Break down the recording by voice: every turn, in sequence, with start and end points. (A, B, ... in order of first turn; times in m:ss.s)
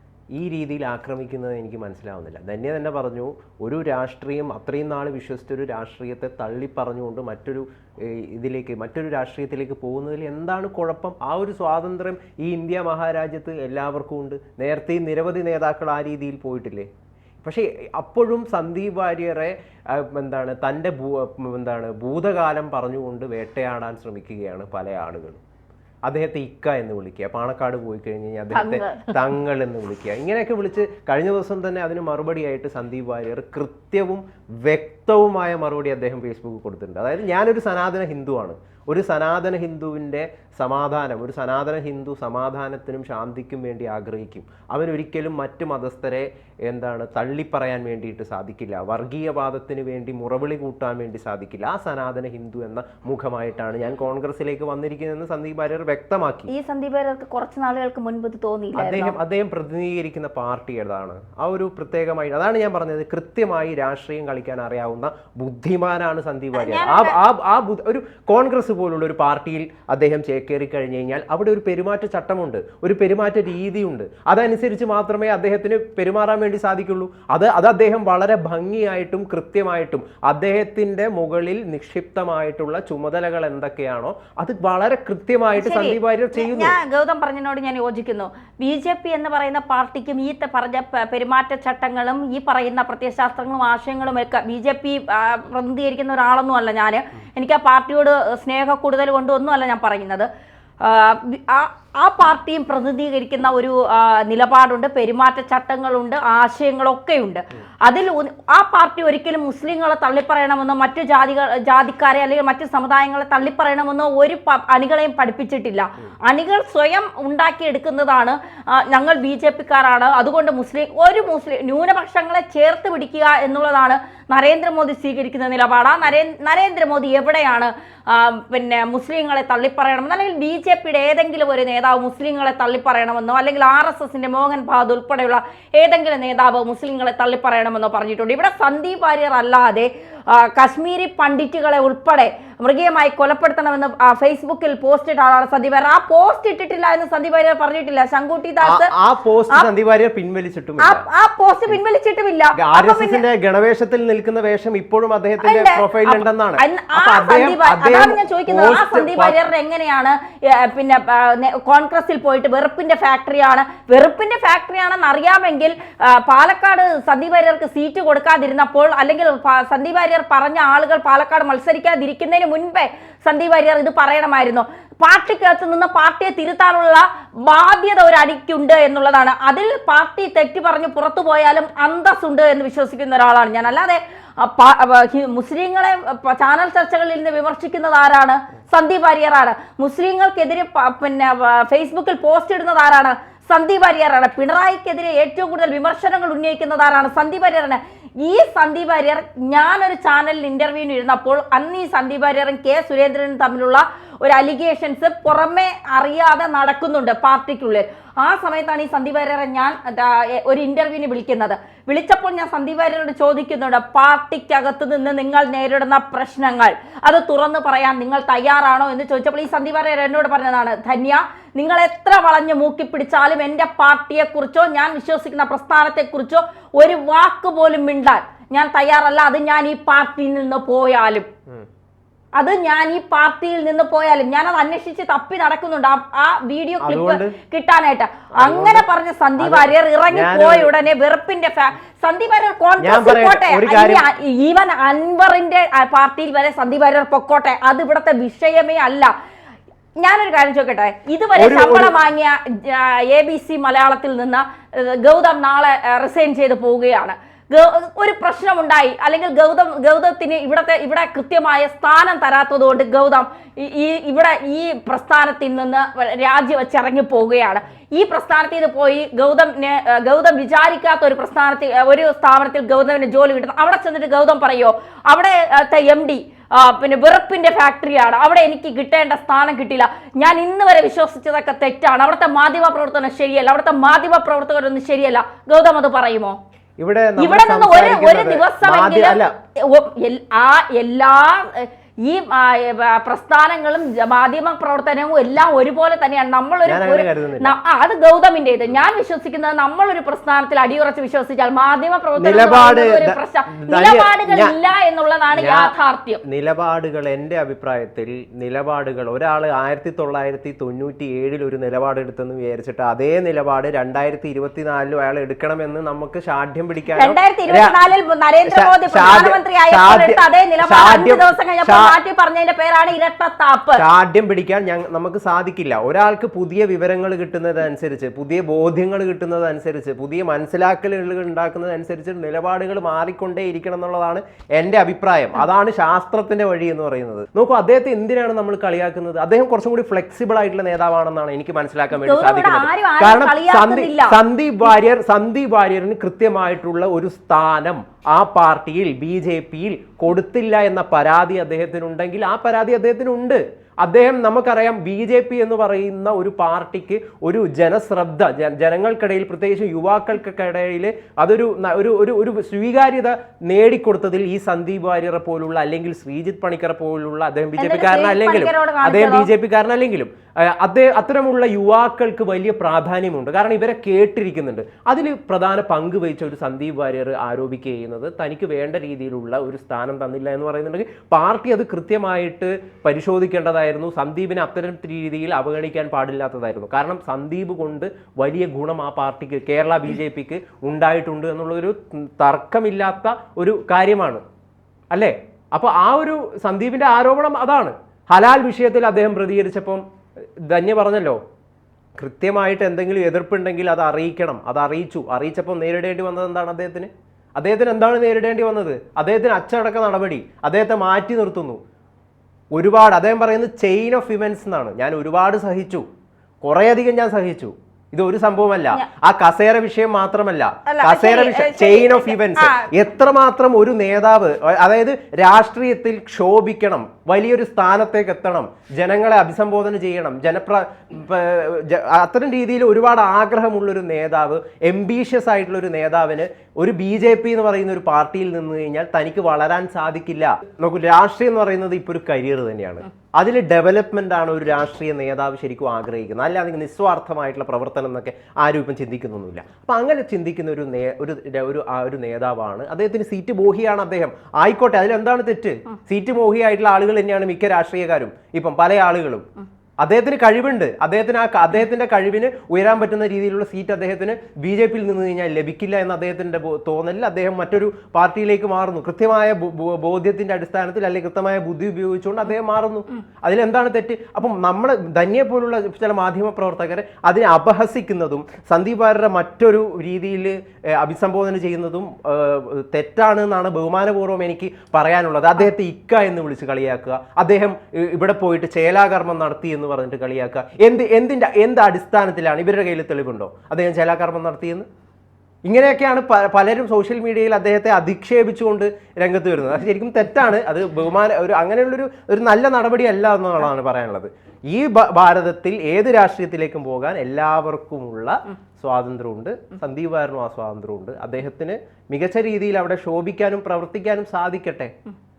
0:00.4-0:16.9 A
0:17.4-0:25.4 A
0:26.1-0:56.5 A
0:28.5-0:29.3 B
0:56.5-0:59.2 B
0:58.8-1:26.8 A
1:06.6-1:07.2 B
1:25.6-1:40.3 B
1:40.8-2:28.9 B
2:28.6-2:31.1 A
2:30.8-2:33.2 B
2:32.6-2:39.4 A
2:35.4-3:51.3 B
3:52.4-4:09.1 B
3:56.8-3:57.4 A
3:58.4-3:58.8 A
3:59.4-4:00.7 A
4:02.8-4:04.0 A
4:10.0-4:46.4 B
4:11.4-4:12.0 A
4:46.8-4:49.3 A
4:47.2-5:06.2 B
4:56.6-4:57.6 A
5:02.2-5:04.6 A
5:05.4-5:05.7 A
5:06.2-5:17.8 A
5:17.0-5:23.8 B
5:18.5-5:22.0 A
5:23.8-6:34.2 A
5:41.9-5:44.2 B
6:07.6-6:09.3 B
6:34.9-6:39.8 A
6:40.4-6:41.2 A
6:42.0-6:51.6 A
6:52.5-6:55.9 A
6:56.4-7:39.2 A
7:00.7-7:02.7 B
7:39.8-8:14.7 A
8:15.5-8:34.7 A